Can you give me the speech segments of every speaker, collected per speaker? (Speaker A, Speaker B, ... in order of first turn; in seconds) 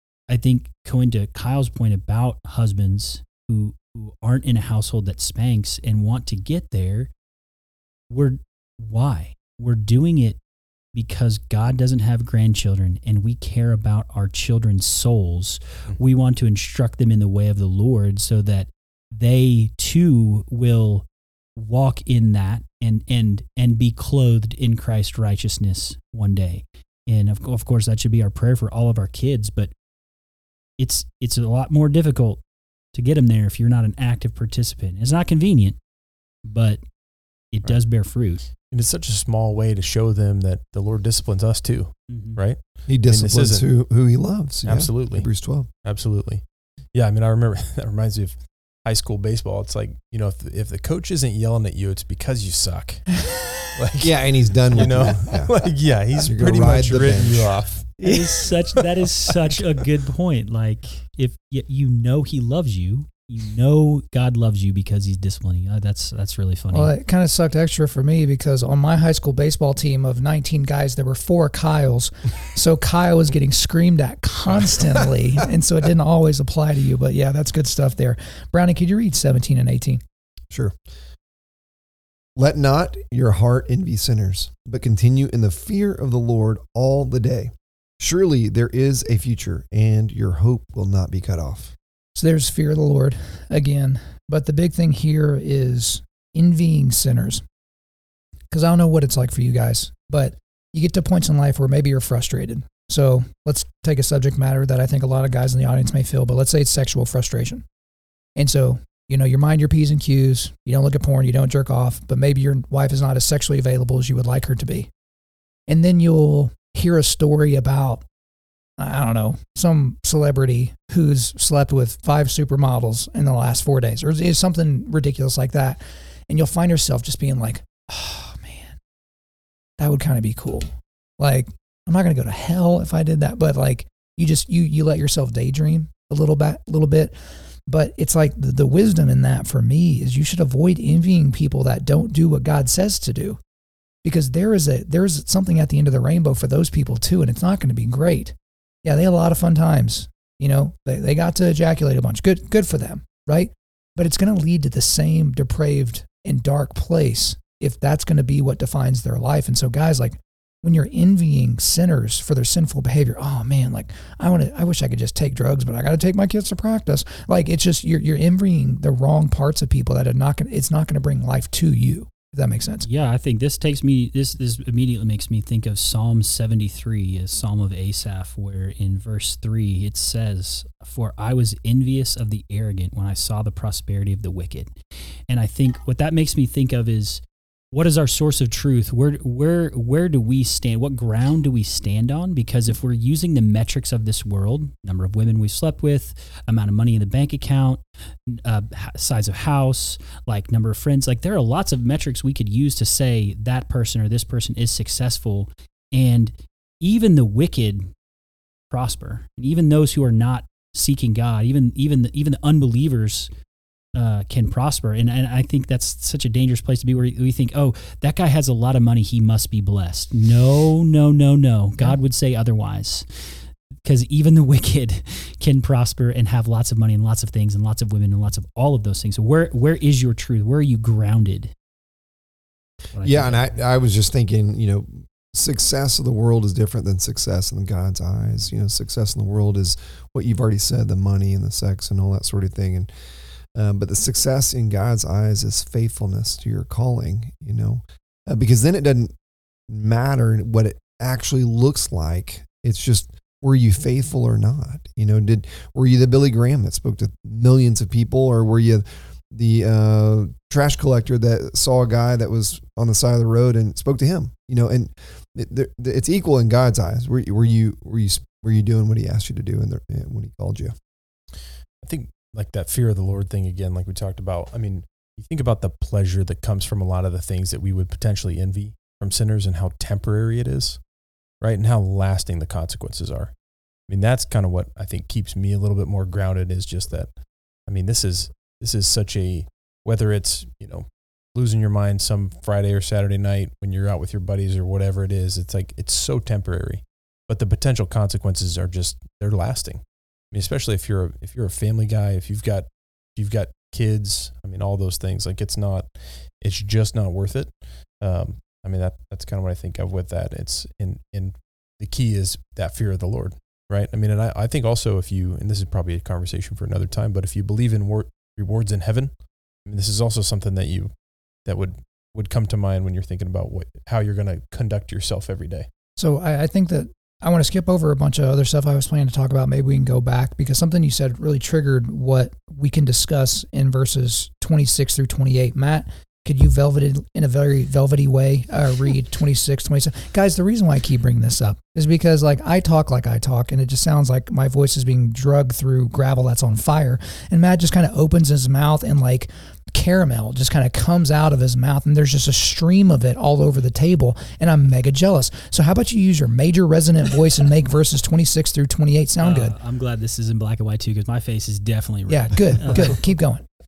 Speaker A: 0.3-7.1, 8.1-10.4, 10.9-29.7, 30.8-32.4, 32.9-35.8, 36.4-36.8, 37.5-38.5, 42.1-42.4, 58.0-66.9, 172.8-184.7, 185.3-207.9, 208.7-213.3, 213.9-231.5, 232.9-233.4, 359.2-363.1
Speaker B: 38.7-43.7, 44.6-45.3, 45.8-58.0, 271.8-280.8, 281.4-283.3, 283.9-287.1, 287.7-319.1, 319.6-320.9, 321.4-325.7
Speaker C: 42.9-45.7, 54.0-55.6, 56.1-57.6, 82.4-91.7, 233.0-242.9, 243.5-249.1, 249.7-270.7
Speaker D: 58.0-58.3, 66.7-80.0, 92.2-97.4, 98.5-107.6, 108.4-114.9, 115.7-118.0, 118.8-128.8, 129.8-137.1, 137.7-143.4, 144.0-172.8, 326.0-359.6, 362.1-363.4